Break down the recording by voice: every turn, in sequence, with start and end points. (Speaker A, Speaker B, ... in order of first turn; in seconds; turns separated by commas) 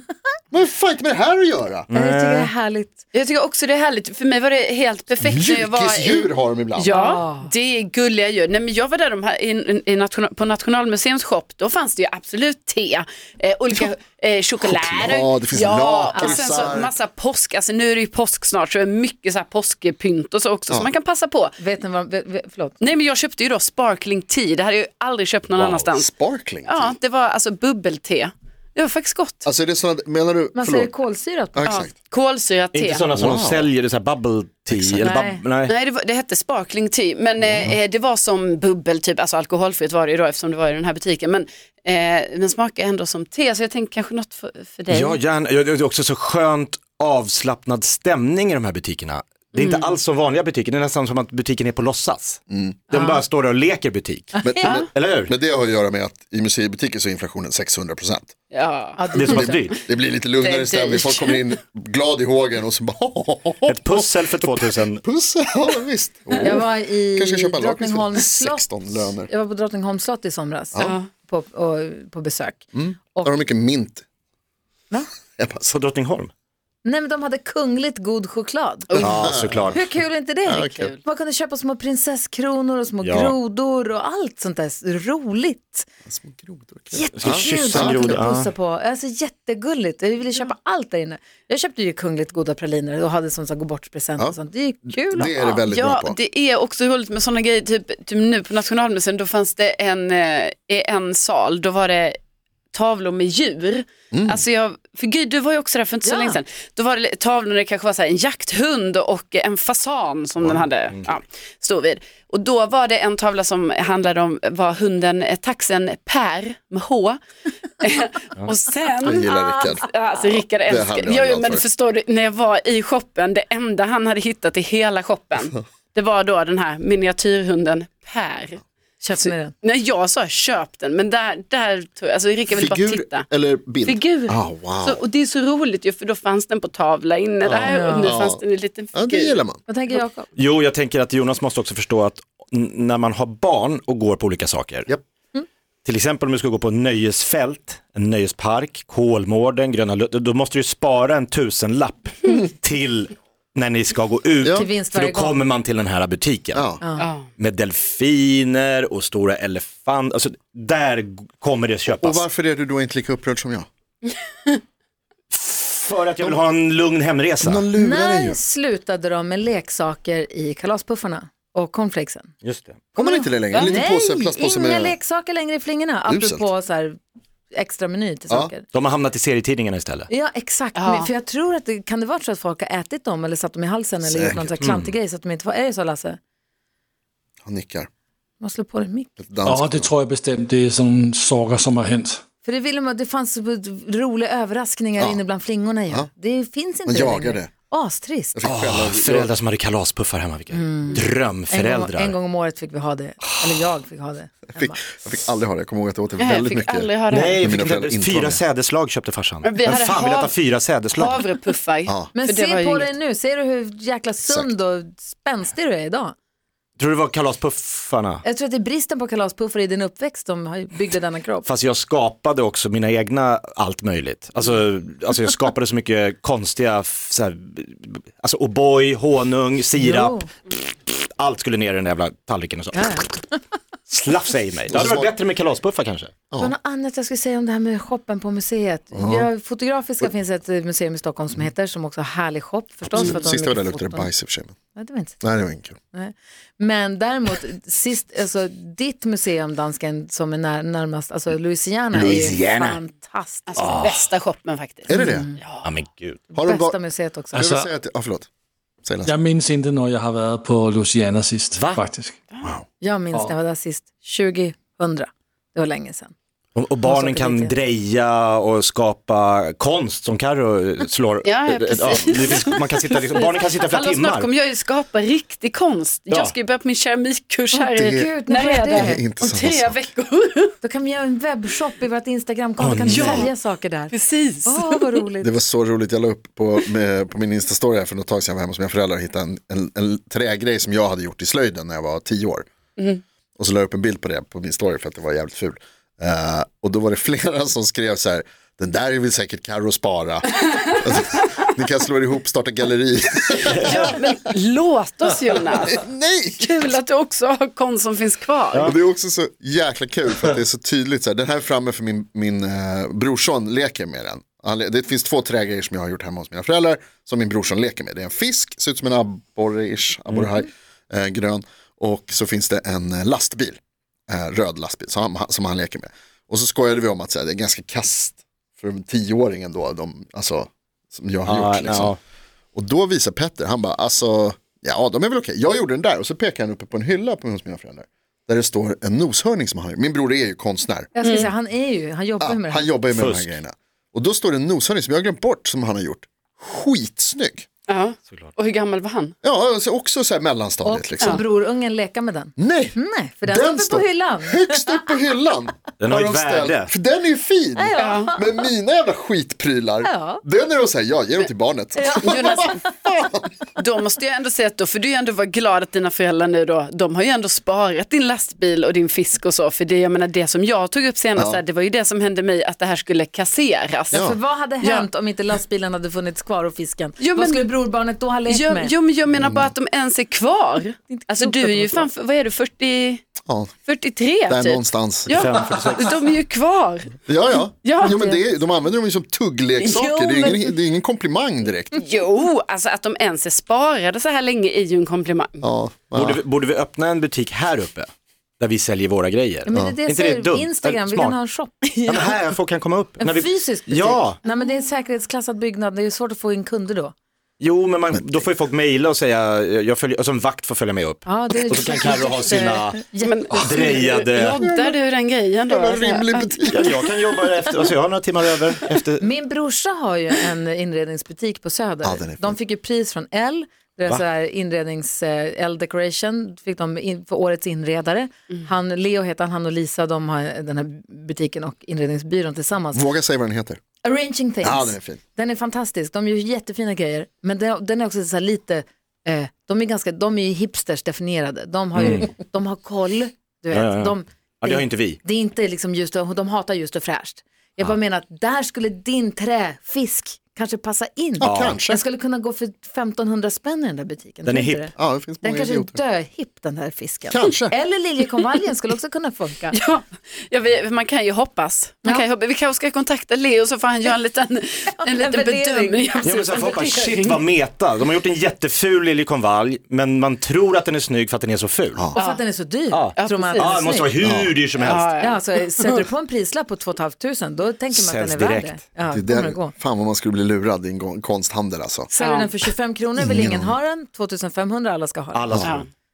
Speaker A: 0.5-1.9, Speaker B: 1.9-2.5, Speaker C: 1.9-3.0, Speaker D: 3.1-21.5, Speaker A: 5.2-6.9, Speaker C: 6.9-7.5, Speaker A: 14.6-16.9, Speaker C: 16.1-16.9, Speaker C: 21.6-22.8, Speaker D: 22.8-26.1, Speaker B: 25.5-25.9, Speaker A: 26.0-26.9, Speaker D: 26.6-29.4, Speaker A: 29.4-30.9, Speaker C: 30.5-31.8, Speaker A: 31.5-31.9, Speaker D: 31.6-33.0, Speaker B: 32.7-35.7, Speaker A: 33.1-33.7, Speaker C: 35.0-35.4, Speaker D: 35.0-45.2, Speaker B: 44.9-52.4, Speaker D: 49.5-50.0, Speaker A: 52.5-52.8, Speaker C: 52.9-53.2, Speaker B: 52.9-55.3, Speaker C: 54.4-54.7, Speaker A: 54.4-58.3, Speaker D: 58.5-59.0, Speaker C: 59.0-59.7, Speaker B: 59.1-59.8, Speaker A: 59.3-69.3, Speaker D: 60.4-61.4, Speaker B: 63.7-65.0, Speaker C: 66.4-73.3, Speaker D: 70.8-71.1, Speaker A: 72.7-74.0, Speaker A: 75.3-75.7, Speaker B: 75.6-76.3, Speaker C: 76.8-85.9, Speaker D: 78.9-79.2, Speaker A: 79.0-79.8, Speaker B: 79.0-80.0, Speaker A: 80.4-80.9, Speaker D: 80.6-81.0, Speaker B: 83.0-83.3, Speaker A: 86.0-88.2, Speaker C: 86.9-95.3, Speaker B: 87.1-88.5, Speaker A: 94.9-96.2, Speaker D: 95.7-102.2, Speaker D: 102.7-117.2, Speaker A: 104.1-104.4, Speaker C: 106.0-106.4, Speaker B: 110.4-111.0, Speaker D: 117.8-119.3, Speaker A: 119.0-119.9, Speaker C: 119.2-119.7, Speaker D: 119.8-128.6, Speaker A: 120.7-121.7, Speaker C: 129.0-129.5, Speaker D: 129.6-133.3, Speaker A: 132.5-135.0, Speaker D: 133.8-139.4, Speaker A: 137.4-139.6, Speaker C: 137.7-138.2, Speaker C: 139.7-140.3, Speaker B: 140.3-144.9, Speaker B: 145.8-156.6, Speaker C: 154.5-155.4, Speaker A: 156.5-156.8, Speaker C: 156.8-157.1, Speaker D: 157.0-157.2, Speaker B: 157.3-162.2, Speaker A: 162.0-163.7, Speaker D: 164.1-164.6, Speaker B: 165.3-167.7, Speaker A: 167.4-168.4, Speaker C: 167.8-172.3, Speaker B: 172.4-172.9, Speaker A: 172.9-174.9, Speaker C: 172.9-177.0, Speaker A: 176.1-176.5, Speaker C: 177.5-178.6, Speaker B: 178.7-180.1, Speaker C: 180.1-186.2, Speaker D: 180.7-181.1, Speaker A: 184.0-184.6, Speaker B: 184.6-184.9, Speaker A: 187.4-187.9, Speaker C: 188.4-189.1, Speaker A: 189.2-189.9, Speaker E: 189.4-192.2, Speaker C: 192.4-198.4, Speaker A: 196.8-197.5, Speaker A: 198.3-199.3, Speaker B: 198.4-202.2, Speaker C: 200.5-204.9, Speaker A: 204.5-208.4, Speaker D: 206.2-207.4, Speaker B: 207.1-211.2, Speaker D: 209.4-210.3, Speaker D: 210.9-212.9, Speaker C: 212.1-216.1, Speaker A: 214.2-214.5, Speaker B: 216.8-218.2, Speaker C: 218.2-221.5, Speaker B: 221.4-233.1, Speaker C: 229.8-230.3, Speaker C: 232.7-233.4, Speaker B: 233.9-236.1, Speaker A: 234.7-235.1, Speaker C: 236.4-244.1, Speaker A: 238.9-239.3, Speaker A: 242.9-244.5, Speaker C: 244.7-245.2, Speaker A: 245.2-245.8, Speaker C: 245.9-253.8, Speaker B: 251.9-252.8, Speaker D: 253.5-255.7, Speaker B: 253.6-254.0, Speaker A: 254.9-255.3, Speaker C: 254.9-255.4, Speaker B: 255.6-256.2, Speaker C: 256.3-257.4, Speaker A: 256.3-256.8, Speaker E: 257.3-257.7, Speaker A: 257.3-258.3, Speaker A: 258.8-259.1, Speaker E: 259.0-262.1, Speaker B: 261.5-261.9, Speaker C: 262.8-266.1, Speaker B: 266.5-274.3, Speaker C: 266.8-267.6, Speaker D: 271.2-280.5, Speaker C: 277.6-279.0, Speaker A: 277.7-278.1, Speaker A: 278.7-279.8, Speaker C: 280.6-285.4, Speaker B: 282.6-283.3, Speaker D: 282.9-283.3, Speaker D: 283.9-285.0, Speaker A: 285.2-292.5, Speaker A: 293.4-304.2, Speaker B: 303.4-303.9, Speaker D: 303.7-305.8, Speaker A: 305.6-306.7, Speaker D: 306.4-308.8, Speaker A: 308.6-323.6, Speaker A: 324.1-332.0, Speaker B: 331.2-332.0, Speaker A: 332.5-340.9, Speaker C: 340.9-342.8, Speaker D: 341.0-341.3, Speaker A: 342.2-347.4, Speaker B: 342.9-343.3, Speaker D: 347.7-349.1, Speaker A: 349.2-351.2, Speaker C: 350.6-355.0, Speaker A: 352.4-363.3, Speaker B: 355.8-356.7, Speaker C: 357.6-358.5, Speaker D: 357.8-358.1, Speaker C: 359.8-360.2, Speaker C: 361.7-362.6, Speaker D: 362.0-362.6, Speaker D: 363.6-374.0, Speaker A: 371.1-371.4, Speaker A: 373.9-374.2, Speaker C: 373.9-378.7, Speaker D: 374.6-374.9, Speaker D: 377.0-377.4, Speaker D: 378.3-383.0, Speaker A: 379.1-379.5, Speaker C: 380.9-381.9, Speaker A: 383.2-383.5, Speaker D: 383.6-387.0, Speaker A: 384.2-385.3, Speaker B: 385.1-385.9, Speaker A: 387.1-391.8, Speaker D: 387.6-388.1, Speaker C: 387.9-388.2, Speaker D: 389.6-390.5, Speaker D: 391.7-395.4, Speaker A: 395.4-396.2, Speaker B: 395.9-397.9, Speaker B: 398.4-401.2, Speaker C: 399.4-402.2, Speaker A: 399.5-399.8, Speaker B: 401.9-404.2, Speaker C: 403.0-406.9, Speaker B: 407.4-412.8, Speaker C: 411.0-413.7, Speaker D: 413.0-416.5, Speaker B: 413.3-414.4, Speaker A: 414.3-414.8, Speaker A: 415.4-416.7, Speaker B: 416.4-419.1, Speaker C: 419.0-432.9, Speaker A: 421.8-422.4, Speaker A: 432.7-433.6, Speaker C: 433.8-459.6, Speaker A: 434.4-435.0, Speaker B: 441.7-442.1, Speaker B: 443.5-445.0, Speaker A: 451.2-451.8, Speaker B: 451.2-451.6, Speaker B: 454.2-454.7, Speaker A: 454.8-455.8, Speaker A: 457.1-457.6, Speaker D: 459.5-467.2, Speaker C: 464.8-466.6, Speaker B: 466.0-471.9, Speaker D: 471.9-472.2, Speaker C: 471.9-473.9, Speaker B: 472.7-474.9, Speaker D: 472.9-473.8, Speaker A: 474.0-474.3, Speaker D: 474.6-475.7, Speaker C: 475.0-479.5, Speaker B: 477.7-478.6, Speaker A: 478.9-481.9, Speaker C: 481.9-485.5, Speaker D: 482.0-482.3, Speaker A: 483.0-483.6, Speaker B: 485.1-485.7